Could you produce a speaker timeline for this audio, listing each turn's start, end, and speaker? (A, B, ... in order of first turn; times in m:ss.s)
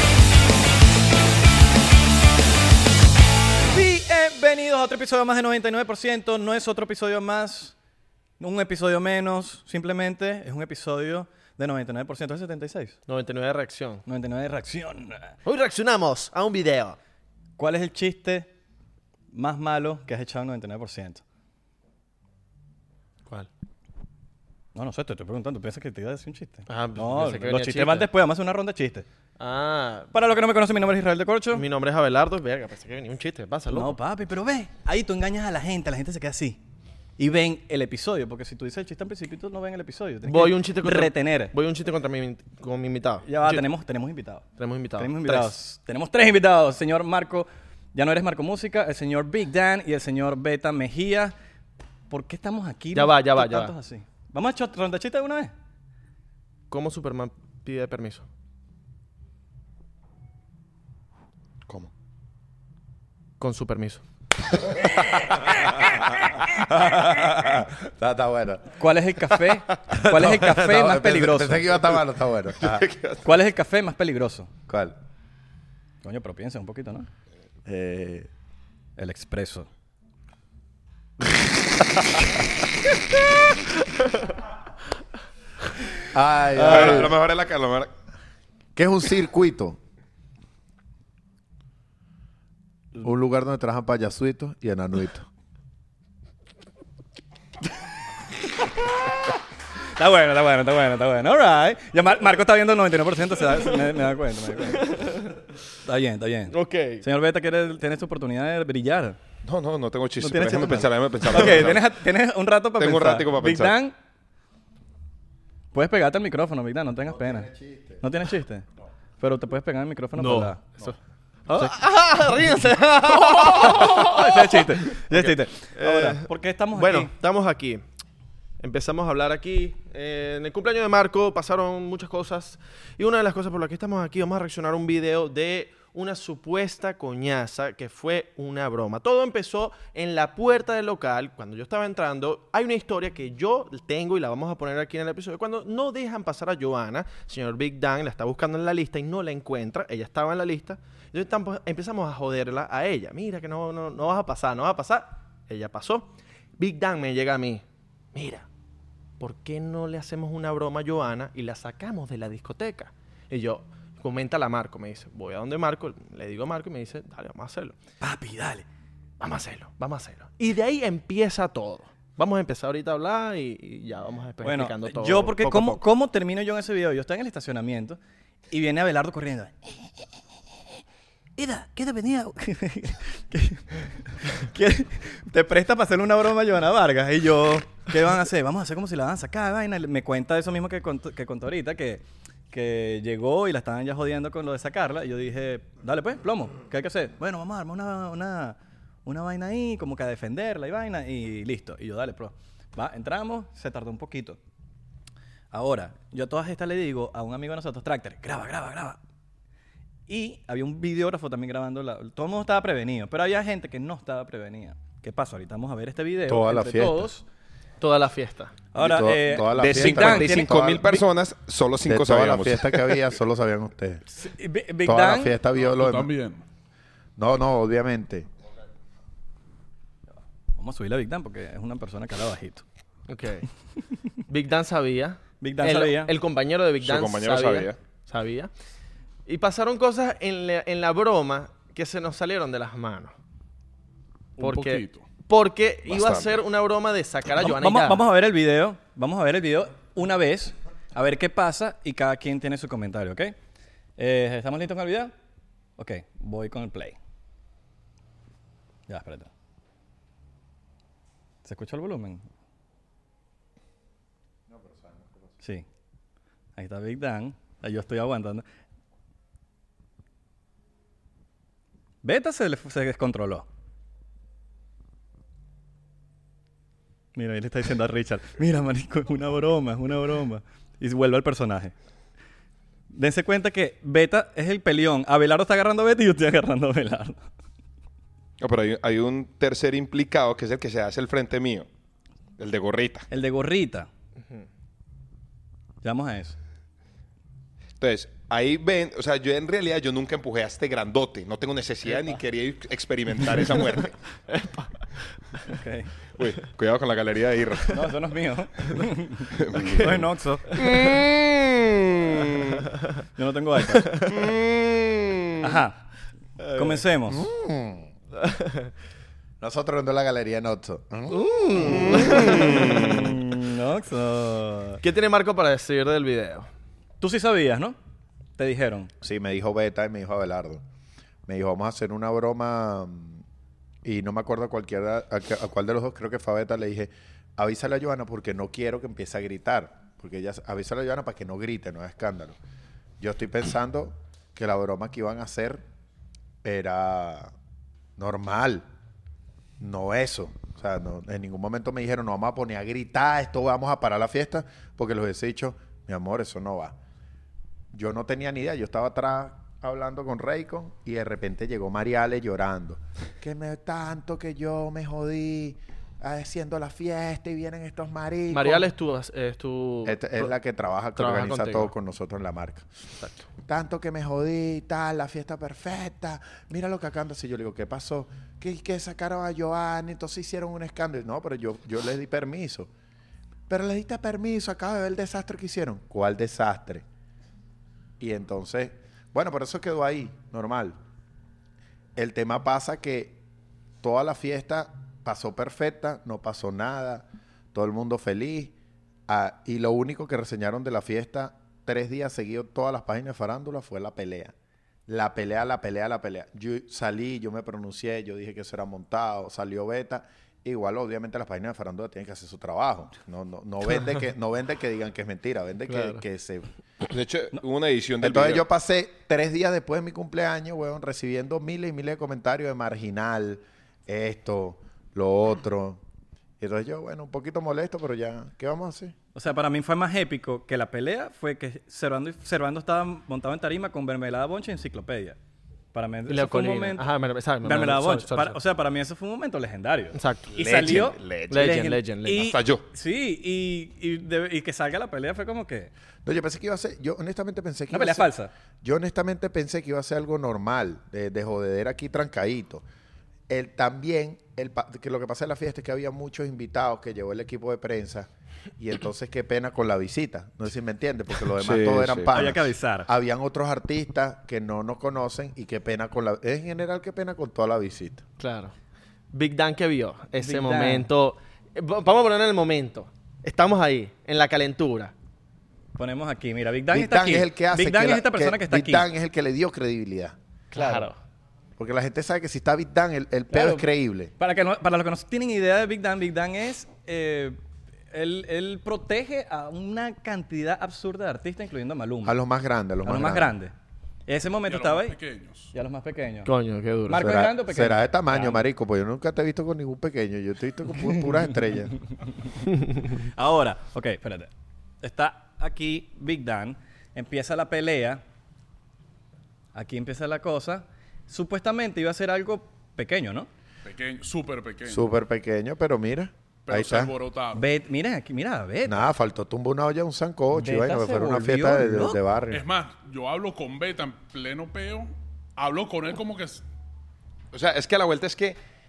0:03.7-0:07.8 A
0:08.4-0:13.0 A
0:13.1-0:14.0 B
0:14.1-0:15.3 A
0:15.4-0:17.0 B
0:17.6-0:18.5 A
0:19.3-0:21.2 A
0:24.8-0:29.1 A
0:26.7-0:28.1 B
0:29.4-0:30.1 B
0:30.1-0:31.6 A
0:31.5-0:34.0 B
0:33.7-0:36.6 A
0:37.2-0:41.5 A
0:40.2-0:43.7 B
0:43.2-0:44.5 A
0:44.6-0:45.5 B
0:45.0-0:51.3 A
0:52.1-0:55.5 A
0:53.0-0:53.7 B
0:56.7-0:58.2 B
1:03.4-1:04.0 B
1:05.3-1:08.8 C
1:08.8-1:11.7 A
1:09.9-1:12.9 C
1:12.6-1:13.2 D
1:13.2-1:14.5 A
1:14.7-1:15.0 C
1:16.0-1:17.1 A
1:17.7-1:18.3 C
1:19.0-1:19.7 A
1:26.1-1:27.2 C
1:26.6-1:27.9 D
1:28.8-1:29.8 C
1:33.0-1:35.3 C
1:40.0-1:45.3 A
1:45.8-1:49.2 A
1:46.5-1:47.0 B
1:49.4-1:51.9 D
1:50.2-1:54.0 A
1:52.8-1:53.8 D
1:55.7-1:57.5 A
1:57.1-1:58.0 C
1:58.0-1:58.6 A
1:59.2-2:00.9 A
2:00.2-2:01.0 B
2:01.5-2:07.8 B
2:03.3-2:07.1 A
2:08.6-2:38.5 B
2:39.2-2:47.8 B
2:48.0-2:48.6 A
2:49.2-2:55.8 B
2:54.4-2:58.0 A
2:58.5-2:59.8 A
3:01.4-3:24.4 A
3:25.5-3:29.0 A
3:30.1-3:37.2 A
3:36.3-3:37.1 C
3:37.8-3:38.6 B
3:38.7-3:41.0 A
3:38.8-3:40.8 C
3:39.6-3:42.8 D
3:41.8-3:44.0 C
3:44.1-3:45.4 A
3:44.8-3:46.1 C
3:45.6-3:46.4 E
3:47.2-3:48.3 C
3:50.6-3:52.6 A
3:53.1-3:53.5 B
3:54.3-3:58.5 B
3:55.4-3:56.1 A
3:56.8-3:57.8 D
3:59.3-4:03.1 B
4:04.4-4:05.1 E
4:04.4-4:08.0 B
4:05.9-4:06.3 D
4:07.4-4:13.4 A
4:14.0-4:15.1 A
4:15.8-4:17.0 A
4:18.9-4:19.3 A
4:21.4-4:22.2 A
4:24.5-4:25.3 C
4:26.6-4:28.4 A
4:32.0-4:33.5 A
4:37.2-4:41.7 A
4:42.9-4:47.2 A
4:48.4-4:51.7 D
4:52.4-4:53.1 D
4:53.1-4:53.9 A
4:55.8-4:56.4 A
4:57.8-5:03.9 D
5:04.3-5:04.7 B
5:05.4-5:05.9 A
5:06.2-5:07.8 D
5:07.7-5:10.5 A
5:09.4-5:10.0 D
5:09.6-5:09.8 B
5:10.5-5:12.6 D
5:13.2-5:14.0 A
5:13.8-5:14.1 B
5:14.1-5:15.4 D
5:15.4-5:15.8 A
5:16.4-5:16.8 B
5:16.5-5:17.3 A
5:17.1-5:17.9 C
5:18.3-5:18.6 B
5:19.4-5:22.9 C
5:21.1-5:23.0 B
5:21.7-5:22.8 D
5:22.9-5:24.8 A
5:24.8-5:26.5 B
5:27.0-5:27.8 A
5:28.4-5:28.9 A
5:29.0-5:30.6 C
5:31.3-5:33.2 C
5:33.8-5:42.4 C
5:43.0-5:45.6 C
5:46.4-5:47.3 C
5:48.0-5:48.6 C
5:49.6-5:56.8 C
5:57.7-6:08.7 C
6:08.3-6:10.3 B
6:09.8-6:12.7 C
6:11.0-6:11.7 B
6:13.5-6:22.7 C
6:23.5-6:26.8 C
6:28.0-6:30.8 C
6:32.0-6:33.2 C
6:33.8-6:38.5 C
6:39.1-6:44.3 C
6:44.9-6:56.5 C
6:55.7-6:56.0 B
6:56.9-6:58.5 D
6:58.0-7:05.8 C
7:06.4-7:09.0 C
7:09.1-7:15.2 A
7:15.7-7:25.7 A
7:16.1-7:18.4 B
7:20.0-7:20.3 B
7:20.4-7:22.6 D
7:21.3-7:22.4 B
7:26.0-7:32.6 C
7:27.7-7:28.3 A
7:33.3-7:48.0 C
7:41.3-7:42.1 D
7:42.1-7:42.9 A
7:48.2-7:48.5 B
7:49.1-7:54.9 B
7:50.2-7:50.9 A
7:55.8-7:58.9 A
7:56.7-8:00.2 C
8:00.5-8:01.0 B
8:01.6-8:04.1 C
8:03.3-8:07.4 A
8:07.9-8:12.2 A
8:12.0-8:13.3 C
8:12.8-8:13.5 A
8:14.1-8:15.0 A
8:14.5-8:15.6 E
8:15.5-8:16.3 A
8:16.2-8:17.0 B
8:16.9-8:18.4 A
8:16.9-8:21.7 C
8:22.9-8:24.3 A
8:24.8-8:28.0 A
8:29.5-8:33.3 A
8:33.6-8:34.9 E
8:34.7-8:36.9 C
8:36.5-8:37.4 E
8:37.3-8:38.8 A
8:38.7-8:42.4 C
8:40.3-8:42.0 A
8:42.3-8:46.4 E
8:47.3-8:48.4 D